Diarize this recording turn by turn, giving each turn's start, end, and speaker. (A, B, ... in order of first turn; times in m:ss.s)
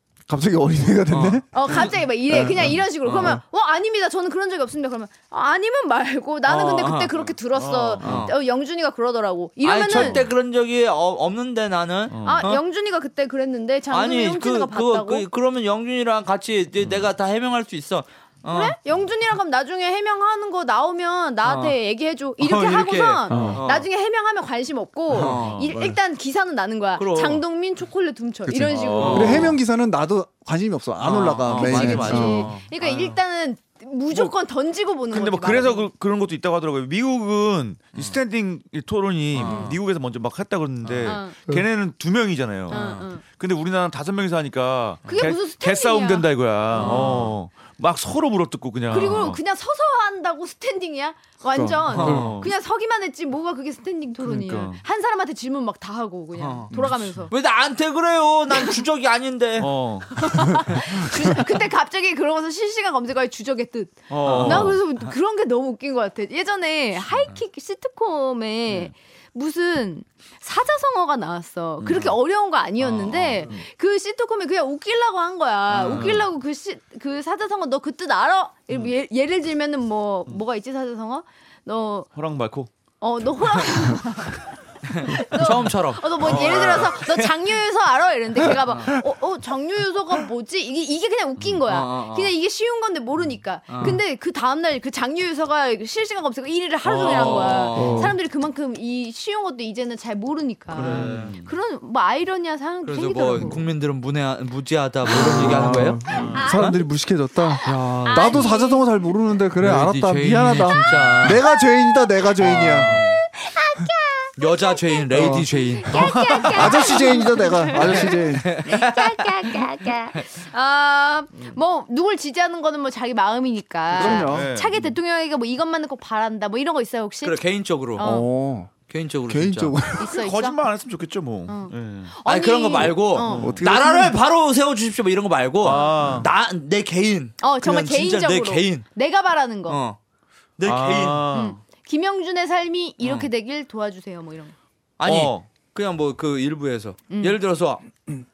0:00.3-0:01.6 A
0:01.1-0:01.9 B
0:01.5-0:10.2 C
0:02.3-0:03.4 A
0:03.1-0:03.4 B
0:06.5-0:07.2 B
0:07.6-0:08.2 D
0:08.0-0:08.3 B
0:09.6-0:12.6 B
0:09.9-0:10.3 D
0:12.1-0:12.4 D
0:12.2-0:15.2 C
0:13.9-0:18.8 B
0:18.5-0:29.5 C
0:21.4-0:21.8 B
0:22.4-0:23.9 B
0:23.3-0:23.6 A
0:25.1-0:25.7 B
0:25.1-0:25.7 D
0:27.0-0:27.4 B
0:28.5-0:32.5 A
0:28.7-0:29.6 D
0:28.9-0:29.5 B
0:31.0-0:33.2 B
0:31.6-0:35.9 C
0:31.6-0:32.6 D
0:35.1-0:49.4 D
0:39.3-0:39.8 B
0:39.4-0:39.8 C
0:40.8-0:41.2 B
0:41.0-0:41.4 C
0:42.7-0:43.1 B
0:42.7-0:43.2 C
0:45.1-0:47.3 C
0:46.8-0:47.3 B
0:48.9-0:57.3 C
0:51.5-0:52.4 A
0:51.9-0:52.4 B
0:52.0-0:52.5 D
0:54.2-0:54.8 D
0:56.4-0:59.8 B
0:59.6-1:00.1 D
1:00.2-1:22.1 C
1:04.1-1:04.8 D
1:04.2-1:04.8 B
1:07.1-1:07.4 B
1:11.8-1:12.2 D
1:12.8-1:13.5 B
1:15.7-1:16.2 B
1:22.1-1:22.7 D
1:23.0-1:24.4 C
1:24.9-1:27.3 B
1:25.0-1:43.6 C
1:26.2-1:27.0 D
1:28.6-1:28.9 B
1:31.7-1:32.3 B
1:33.7-1:34.0 B
1:36.8-1:38.2 B
1:37.7-1:38.2 A
1:40.7-1:41.4 B
1:40.7-1:41.5 D
1:42.8-1:46.8 B
1:45.1-1:52.9 A
1:45.2-1:46.5 D
1:46.1-1:46.8 C
1:47.6-1:48.9 C
1:47.6-1:48.5 B
1:49.6-1:51.4 B
1:51.4-1:52.0 C
1:52.4-1:53.1 B
1:52.8-1:53.1 D
1:53.0-2:07.4 C
1:54.4-1:57.2 B
1:55.1-1:55.5 A
1:55.9-1:56.7 D
1:56.5-1:58.6 A
1:57.7-2:00.3 B
2:03.9-2:04.5 A
2:04.0-2:04.9 D
2:07.2-2:08.1 B
2:07.9-2:08.3 C
2:08.0-2:08.7 A
2:08.9-2:09.8 B
2:09.3-2:10.1 A
2:10.0-2:10.6 C
2:10.0-2:12.1 D
2:11.5-2:13.6 C
2:12.2-2:18.8 B
2:13.2-2:13.6 D
2:13.4-2:14.2 A
2:15.6-2:16.3 D
2:15.6-2:16.0 C
2:17.4-2:19.8 C
2:19.7-2:20.0 B
2:20.6-2:21.3 B
2:20.6-2:21.6 D
2:21.3-2:24.6 C
2:23.0-2:23.3 B
2:25.0-2:28.0 B
2:25.0-2:25.4 D
2:27.1-2:27.4 C